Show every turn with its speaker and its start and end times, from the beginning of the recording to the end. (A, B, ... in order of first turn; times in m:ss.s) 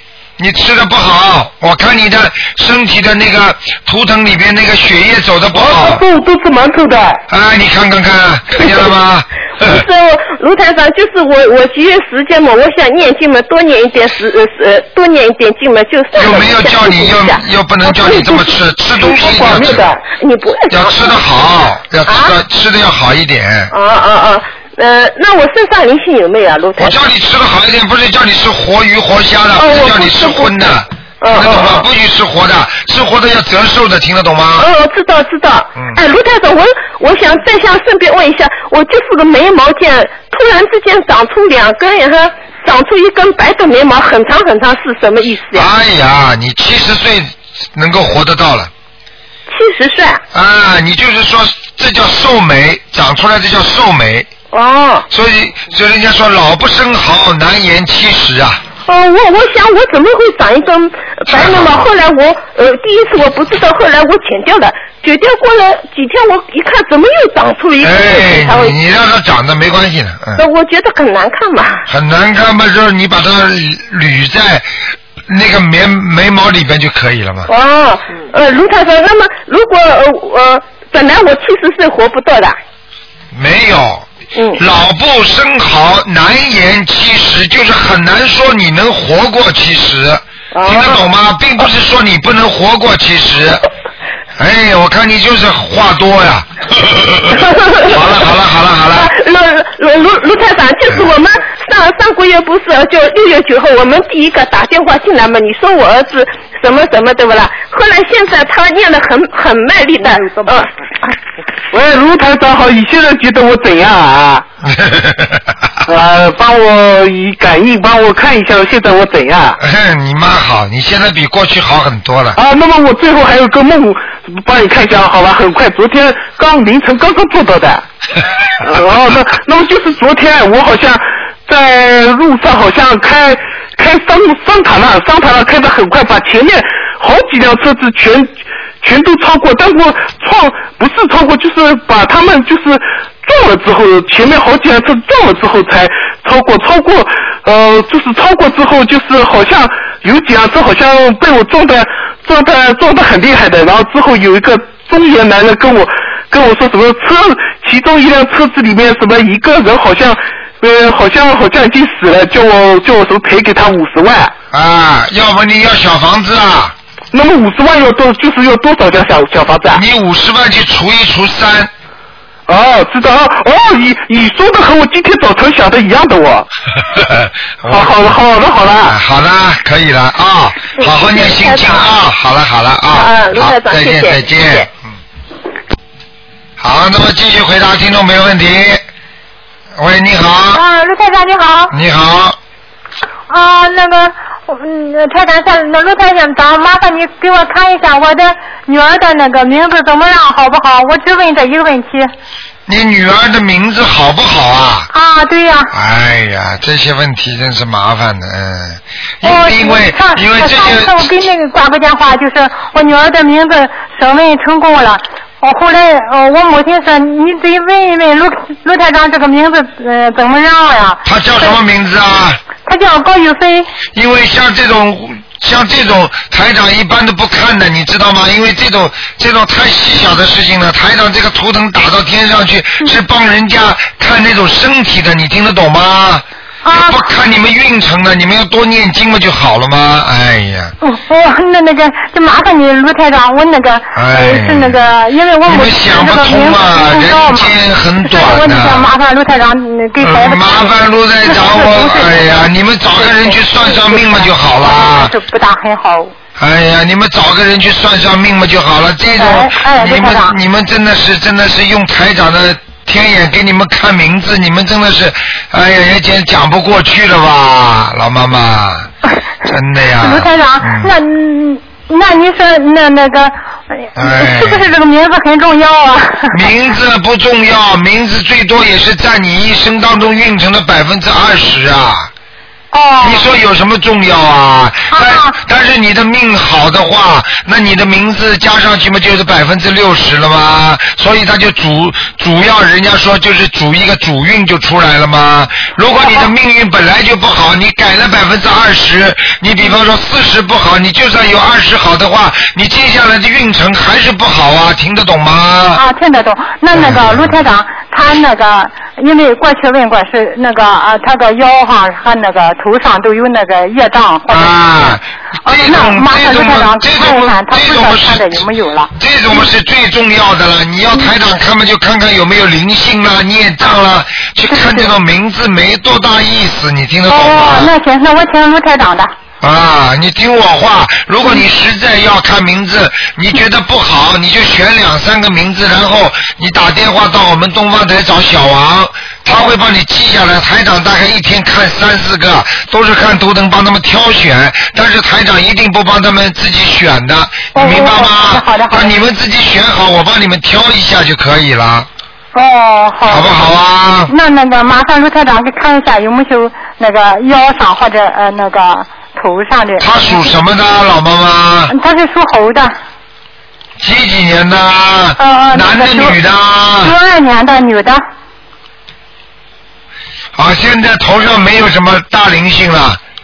0:00.4-0:06.0 A
0:05.5-0:07.2 B
0:07.3-0:09.8 A
0:08.6-0:08.9 C
0:09.6-0:21.2 C
0:16.2-0:19.9 A
0:20.7-0:23.7 A
0:22.1-0:22.4 C
0:23.7-0:27.0 C
0:26.8-0:34.7 A
0:29.6-0:31.9 C
0:34.6-0:45.7 C
0:45.5-0:48.7 A
0:49.5-0:50.2 C
0:50.3-0:54.3 A
0:54.5-0:55.1 C
0:55.1-0:58.6 A
0:58.8-1:08.8 C
1:01.3-1:01.8 A
1:07.8-1:10.4 A
1:10.4-1:11.8 C
1:11.9-1:14.7 A
1:15.3-1:17.5 A
1:17.5-1:22.6 C
1:23.3-1:33.6 A
1:24.4-1:24.6 C
1:30.5-1:31.0 C
1:34.4-1:39.1 A
1:37.3-1:38.0 C
1:38.9-1:50.7 C
1:51.7-1:54.4 B
1:54.6-1:55.6 A
1:55.9-1:59.6 B
1:59.6-2:02.4 A
2:02.4-2:07.8 B
2:08.6-2:44.3 B
2:44.5-2:46.7 A
2:47.1-2:49.8 B
2:49.7-2:51.7 A
2:52.5-2:56.5 B
2:56.9-2:58.1 A
2:57.6-2:59.0 B
2:58.9-3:04.7 A
3:00.8-3:01.9 C
3:02.9-3:04.7 C
3:06.6-3:08.8 A
3:09.8-3:10.6 A
3:10.5-3:11.7 D
3:11.7-3:12.4 A
3:13.3-3:22.1 D
3:22.7-3:24.9 A
3:24.9-3:25.7 D
3:25.7-3:31.1 A
3:29.2-3:41.6 D
3:41.0-3:42.4 A
3:42.6-3:43.7 D
3:43.9-4:00.7 A
3:56.6-3:57.1 D
4:00.8-4:16.1 D
4:03.9-4:04.8 A
4:05.5-4:08.9 A
4:10.0-4:15.1 A
4:16.4-4:28.9 A
4:19.2-4:20.4 D
4:29.5-4:30.9 A
4:30.0-4:36.4 D
4:34.0-4:34.7 A
4:36.3-4:42.1 A
4:42.7-4:43.3 D
4:43.0-5:05.8 A
4:44.9-4:45.4 D
4:55.9-4:56.3 D
5:05.7-5:14.5 D
5:06.7-5:07.4 A
5:14.3-5:27.7 A
5:15.4-5:19.5 D
5:24.5-5:24.9 D
5:27.1-5:29.1 D
5:29.4-5:51.9 A
5:47.5-5:49.0 D
5:52.3-5:53.4 D
5:53.1-5:54.1 A
5:54.1-6:00.3 D
5:59.8-6:01.7 A
6:01.7-6:02.8 D
6:03.8-6:06.9 A
6:05.2-6:06.2 D
6:06.8-6:08.0 D
6:10.4-6:13.0 A